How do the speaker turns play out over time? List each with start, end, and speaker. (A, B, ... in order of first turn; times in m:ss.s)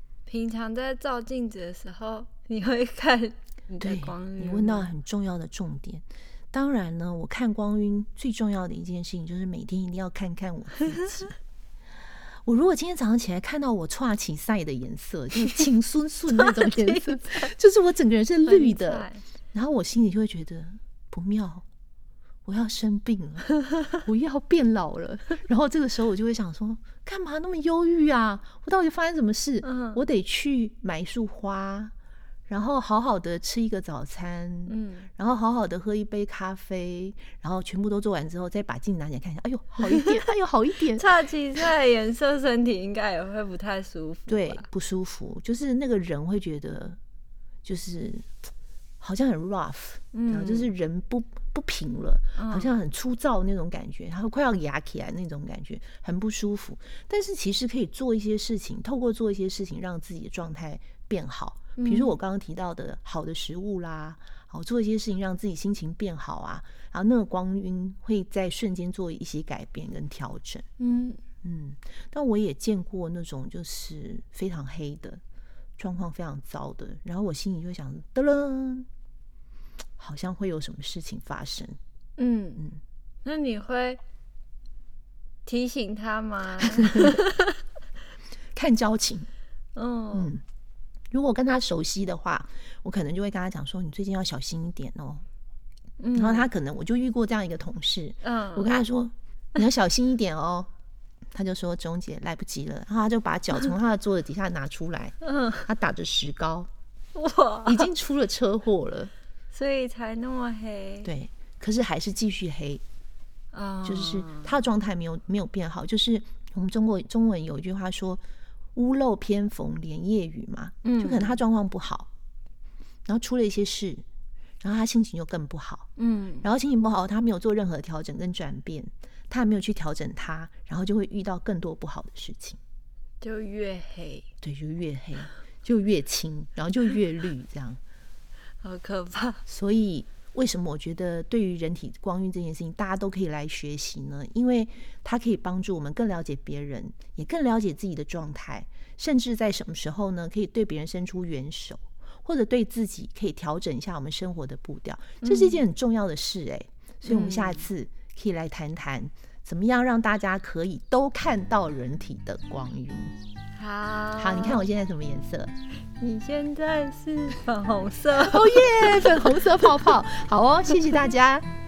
0:00.2-0:04.9 A
0:03.8-0:11.3 B
0:12.4-0:21.6 B
0:16.3-0:17.5 A
0:18.4-0:19.2 A
0:22.4-0:31.9 B
0:29.6-0:30.0 A
0:32.5-0:41.0 B
0:34.7-0:35.1 A
0:39.8-0:40.1 A
0:40.9-0:44.6 A
0:44.3-0:47.0 B
0:47.6-0:48.3 B
0:49.0-1:10.6 B
0:50.1-0:50.7 A
0:52.4-0:52.7 A
1:01.8-1:02.1 A
1:10.8-1:11.2 A
1:11.4-1:15.2 B
1:15.8-1:18.9 B
1:20.0-1:21.8 B
1:22.2-1:22.6 A
1:23.2-1:24.0 A
1:25.4-1:27.5 A
1:26.8-1:27.2 B
1:28.5-1:29.3 B
1:29.8-1:30.3 A
1:30.1-1:30.4 B
1:31.1-1:35.2 B
1:36.0-1:36.5 A
1:36.1-1:40.7 B
1:38.2-1:38.8 A
1:41.3-1:46.7 B
1:45.2-1:45.7 A
1:47.1-1:47.9 A
1:47.6-1:49.1 B
1:49.5-1:51.1 A
1:51.0-1:52.8 B
1:53.5-1:54.6 A
1:53.8-1:58.2 B
1:58.7-2:02.1 B
2:00.8-2:01.4 A
2:03.0-2:04.0 B
2:04.6-2:05.9 B
2:06.0-2:06.4 A
2:06.4-2:12.6 B
2:13.2-2:14.3 A
2:14.4-2:17.8 B
2:18.6-2:19.4 A
2:19.4-2:43.1 B
2:35.2-2:35.6 A
2:37.0-2:37.7 A
2:43.6-2:44.6 A
2:44.2-2:45.5 B
2:46.0-2:49.8 A
2:48.2-2:51.4 B